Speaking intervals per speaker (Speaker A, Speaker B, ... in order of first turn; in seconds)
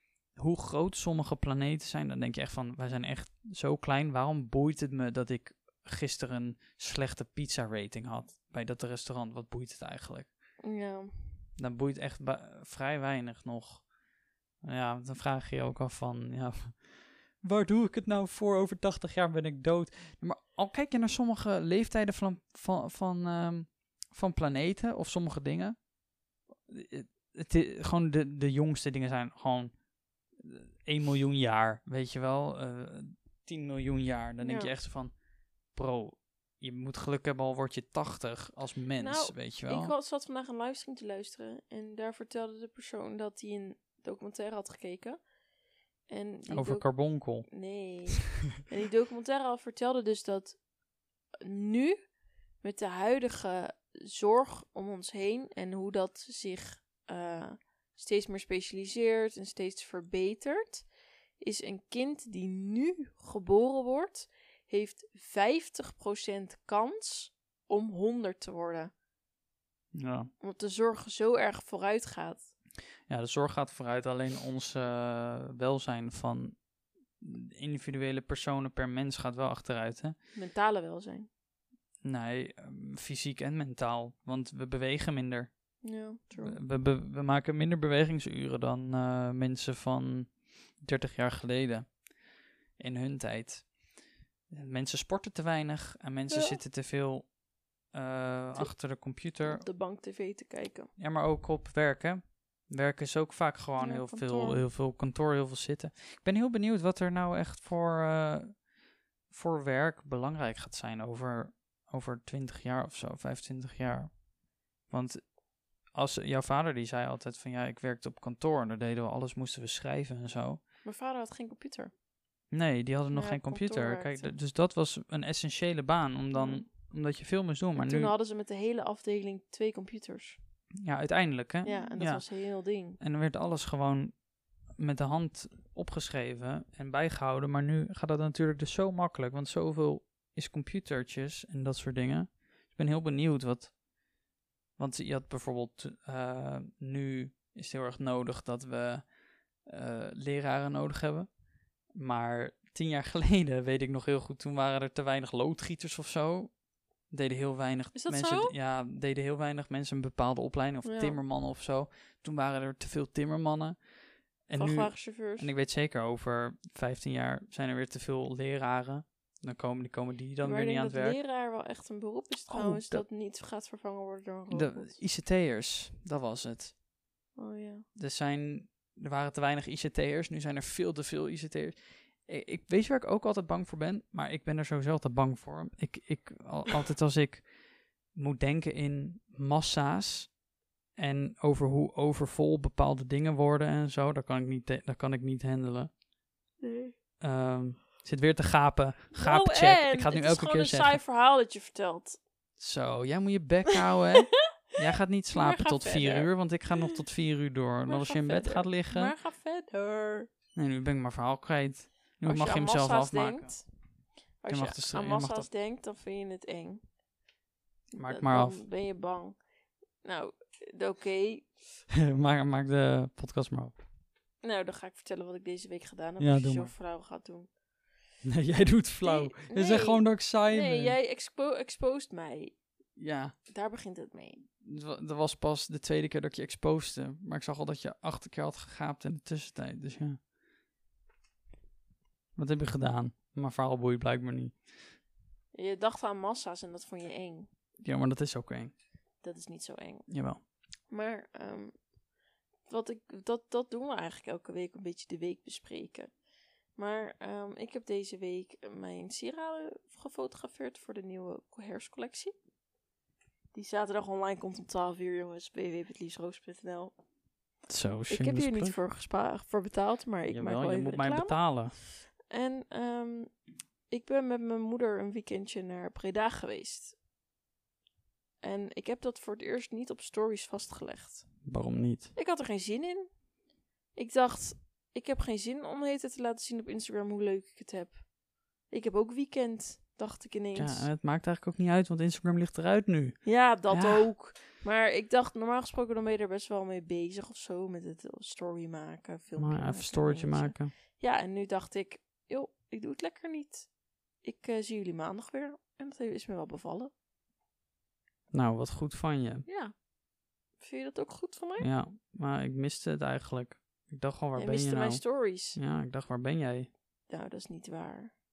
Speaker A: 0.3-10.3, 11.6-13.9, 14.6-25.8, 26.7-29.8, 30.4-35.1, 35.7-39.9, 46.5-47.5, 69.9-70.3, 73.1-76.6, 77.2-80.2, 82.0-85.5, 86.4-92.1, 92.8-93.8, 94.5-97.3, 97.9-99.7, 101.0-108.7, 109.3-114.2, 114.9-115.3, 115.9-120.6, 122.5-128.1, 130.8-132.2, 133.0-134.2, 134.8-143.7, 144.8-149.1, 149.7-151.3, 151.9-156.6, 157.1-163.9, 164.5-171.2, 172.5-173.0, 174.5-176.8, 177.9-187.5, 188.1-190.3, 191.0-195.9, 197.2-201.0, 202.6-209.1, 210.6-213.6, 214.5-215.5, 217.9-218.6, 221.9-223.8, 226.2-226.7, 228.2-231.0, 233.0-233.4, 234.6-240.2, 242.4-244.6, 247.8-248.7, 250.1-250.4, 267.7-268.8, 270.3-271.8, 281.4-282.1, 290.6-294.1, 299.4-300.7, 308.3-309.5, 311.6-316.7
Speaker B: 10.6-11.4, 34.4-34.7, 39.0-45.2, 46.1-50.6, 51.4-52.0, 52.6-60.9, 61.4-68.9, 70.4-72.5, 80.3-81.3, 85.8-86.6, 96.3-96.6, 99.4-100.9, 103.8-104.6, 120.8-121.9, 123.1-124.3, 126.3-126.7, 127.8-130.4, 131.6-133.0, 157.9-158.5, 160.8-161.2, 164.6-165.5, 170.4-175.0, 177.4-177.9, 196.6-196.9, 199.2-202.2, 205.3-206.3, 207.9-210.3, 212.2-213.7, 214.4-216.8, 217.9-219.4, 220.0-221.5, 224.4-227.5, 229.0-232.6, 233.5-234.4, 245.5-247.5, 249.2-250.1, 250.9-251.8, 252.7-256.1, 256.8-262.3, 263.5-266.9, 268.1-271.4, 272.2-273.3, 273.9-277.0, 278.4-281.3, 282.2-283.1, 283.9-288.1, 288.7-290.9, 293.2-303.7, 304.2-306.9, 309.5-309.8, 310.6-311.7, 314.4-315.6, 317.1-318.1